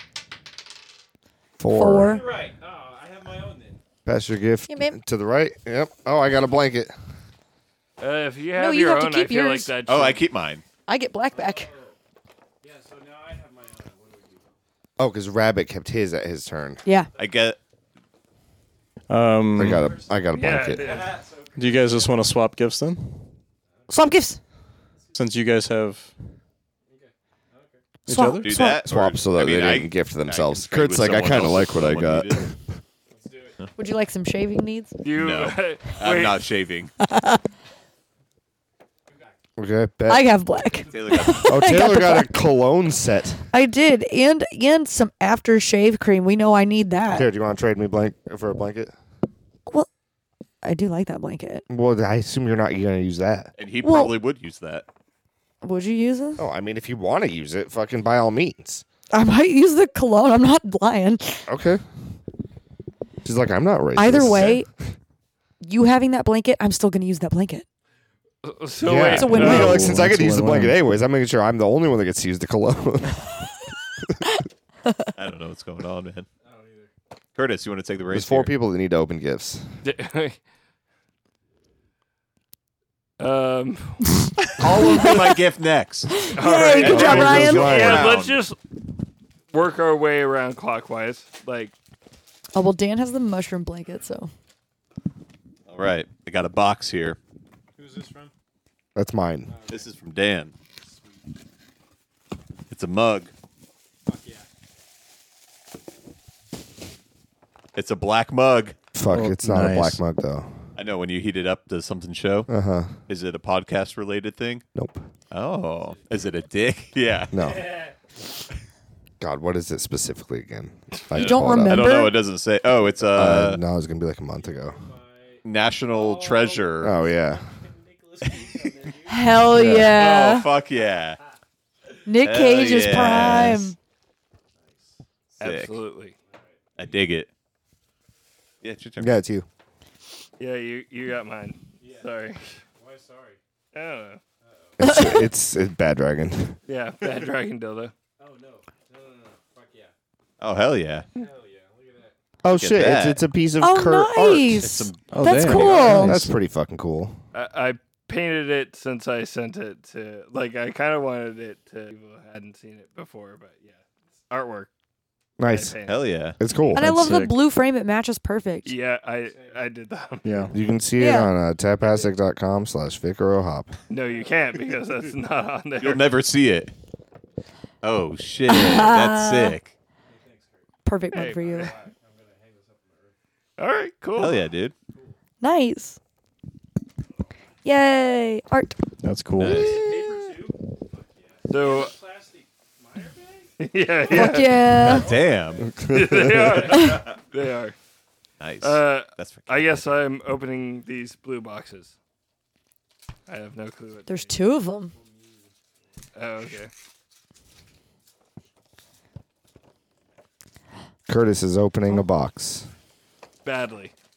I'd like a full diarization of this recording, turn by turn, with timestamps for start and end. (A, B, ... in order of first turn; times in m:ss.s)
0:01.6-0:02.2 A
0:01.7-0:02.2 B
0:02.0-0:03.8 C
0:04.1-0:06.9 A
0:04.7-0:05.0 B
0:08.0-0:10.2 D
0:08.6-0:09.7 B
0:09.9-0:10.6 E
0:10.9-0:11.7 B
0:11.3-0:12.0 C
0:12.6-0:14.6 C
0:15.0-0:16.8 A
0:16.8-0:17.1 B
0:17.2-0:17.6 E
0:19.1-0:19.8 F
0:19.6-0:20.9 A
0:19.7-0:22.4 C
0:20.3-0:21.2 D
0:21.6-0:23.3 F
0:23.7-0:24.3 C
0:23.9-0:24.4 B
0:25.0-0:25.2 C
0:25.2-0:26.1 F
0:26.9-0:27.8 C
0:28.1-0:28.6 F
0:28.1-0:28.8 B
0:28.4-0:32.5 E
0:28.8-0:32.5 A
0:33.1-0:33.7 C
0:33.8-0:35.0 B
0:35.0-0:36.4 D
0:35.2-0:36.9 E
0:37.0-0:37.4 B
0:39.1-0:39.4 C
0:39.6-0:40.3 A
0:40.1-0:42.3 B
0:40.5-0:41.4 C
0:40.9-0:41.5 E
0:41.5-0:43.4 A
0:43.5-0:47.3 B
0:47.1-0:48.9 A
0:50.6-0:51.6 B
0:51.7-0:53.5 A
0:53.6-0:54.8 E
0:53.8-0:54.2 B
0:55.6-0:56.4 B
0:56.4-0:58.8 A
0:59.1-1:01.5 B
1:01.5-1:01.8 A
1:03.2-1:04.7 A
1:04.0-1:04.7 B
1:05.6-1:07.7 B
1:08.4-1:09.8 D
1:08.8-1:13.4 A
1:09.0-1:09.9 B
1:09.3-1:10.8 F
1:15.2-1:16.3 E
1:16.4-1:16.9 C
1:17.4-1:18.5 E
1:18.1-1:19.6 A
1:19.8-1:20.4 D
1:23.2-1:24.2 D
1:24.6-1:26.1 E
1:24.8-1:25.4 B
1:26.1-1:27.9 B
1:26.4-1:28.6 D
1:26.7-1:28.4 E
1:26.8-1:28.1 A
1:29.5-1:31.7 D
1:32.5-1:34.3 B
1:35.7-1:37.2 E
1:37.8-1:38.3 C
1:39.0-1:39.5 A
1:39.5-1:40.0 C
1:39.7-1:40.5 E
1:40.8-1:41.3 C
1:42.7-1:43.3 E
1:44.1-1:44.5 C
1:47.8-1:48.8 E
1:49.0-1:50.5 A
1:49.1-1:50.0 F
1:50.8-1:52.5 E
1:52.5-1:53.0 A
1:53.1-1:54.6 E
1:54.8-1:55.0 A
1:55.3-1:57.4 E
1:55.5-1:56.6 C
1:57.3-1:57.6 A
1:57.4-1:57.8 C
1:59.2-2:02.0 A
2:01.1-2:03.6 E
2:01.1-2:02.2 B
2:03.1-2:04.8 A
2:04.3-2:09.8 C
2:05.4-2:06.9 E
2:06.8-2:07.4 A
2:09.1-2:10.5 B
2:09.5-2:10.0 A
2:09.9-2:11.2 E
2:12.1-2:13.8 B
2:12.2-2:13.7 E
2:14.6-2:15.0 C
2:15.4-2:15.8 E
2:15.4-2:16.2 D
2:16.2-2:17.1 C
2:16.8-2:17.3 E
2:18.6-2:19.2 E
2:19.0-2:19.5 A
2:20.4-2:22.5 D
2:21.8-2:22.2 C
2:22.8-2:23.4 C
2:23.7-2:24.2 D
2:24.4-2:24.8 C
2:24.8-2:26.6 A
2:24.8-2:25.3 B
2:26.7-2:27.9 D
2:28.2-2:29.9 C
2:30.4-2:31.1 E
2:31.2-2:32.2 C
2:32.4-2:34.7 A
2:32.6-2:33.2 E
2:33.6-2:36.2 B
2:34.6-2:35.9 E
2:35.1-2:36.3 F
2:35.5-2:37.2 A
2:37.3-2:43.7 D
2:44.3-2:44.7 D
2:45.4-2:45.8 A
2:45.5-2:46.1 D
2:45.9-2:46.8 E
2:46.4-2:47.1 A
2:46.7-2:48.7 B
2:46.8-2:47.4 F
2:48.6-2:50.5 D
2:49.2-2:49.7 C
2:50.2-2:50.5 F
2:50.5-2:53.7 A
2:51.0-2:51.3 B
2:53.9-2:56.1 D
2:54.1-2:54.3 C
2:55.8-2:56.7 E
2:57.8-2:59.7 E
2:58.5-2:59.6 B
3:00.1-3:03.1 C
3:00.8-3:01.7 B
3:01.1-3:01.7 D
3:03.6-3:04.4 D
3:04.2-3:04.7 E
3:04.9-3:05.2 C
3:05.4-3:06.0 B
3:07.6-3:08.8 B
3:09.0-3:09.7 F
3:09.4-3:09.8 E
3:09.4-3:13.5 C
3:11.5-3:11.9 D
3:13.6-3:14.6 D
3:14.1-3:15.1 B
3:14.3-3:15.8 C
3:14.8-3:15.7 E
3:15.7-3:16.6 A
3:15.9-3:17.8 D
3:16.6-3:17.1 C
3:18.4-3:19.6 E
3:18.6-3:21.9 D
3:23.3-3:24.3 D
3:24.1-3:24.9 B
3:24.8-3:25.9 C
3:26.2-3:26.7 D
3:31.1-3:32.7 A
3:33.4-3:33.9 D